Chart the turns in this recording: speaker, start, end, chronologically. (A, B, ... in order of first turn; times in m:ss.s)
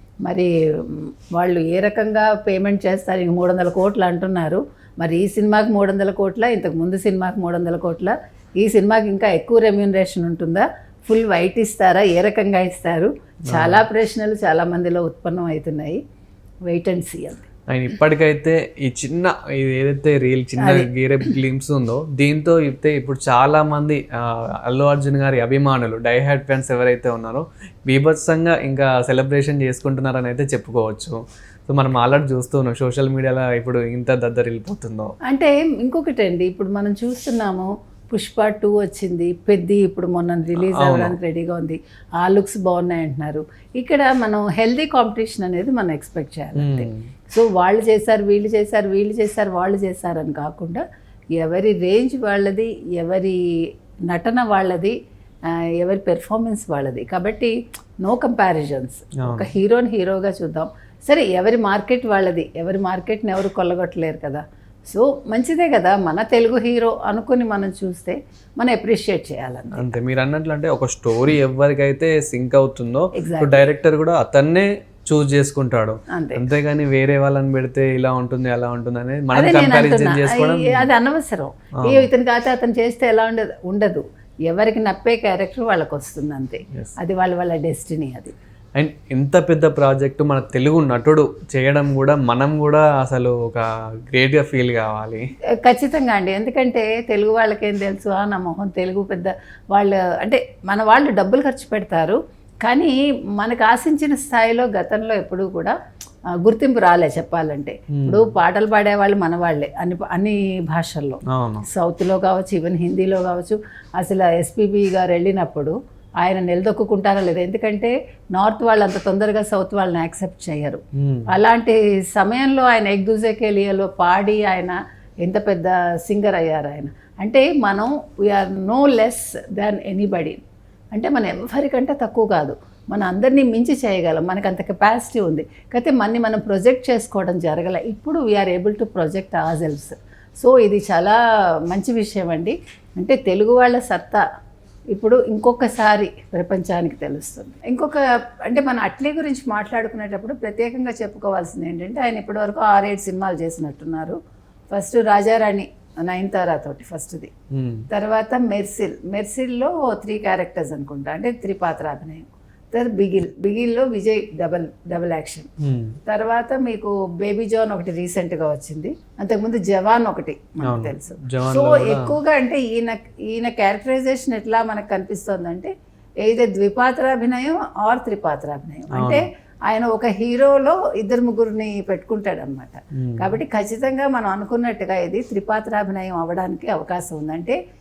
0:00.3-0:16.0 A
0:13.5-0:13.8 B
0:16.7-0:17.5 A
0:17.7-0:31.2 B
0:20.6-0:20.9 A
0:31.7-0:35.1 B
0:35.3-0:50.8 A
0:40.6-0:41.2 B
0:46.6-0:47.0 B
0:51.4-0:53.4 A
0:54.1-0:55.0 A
0:55.5-1:09.9 A
0:59.2-0:59.5 B
1:09.8-1:20.9 B
1:13.2-1:13.7 A
1:16.1-1:16.4 A
1:19.3-1:28.3 A
1:21.8-1:22.1 B
1:28.8-1:35.2 B
1:35.6-1:45.8 A
1:46.4-2:10.4 A
1:47.9-1:48.3 B
1:51.3-1:51.7 B
2:01.0-2:01.3 B
2:11.0-2:21.2 A
2:21.7-2:24.2 A
2:24.9-2:34.2 A
2:34.7-2:37.3 A
2:37.5-2:37.9 B
2:37.9-2:45.5 A
2:45.6-2:46.0 B
2:46.1-2:55.7 A
2:50.6-2:52.1 B
2:56.2-3:07.6 A
2:58.9-2:59.2 B
3:03.0-3:03.3 B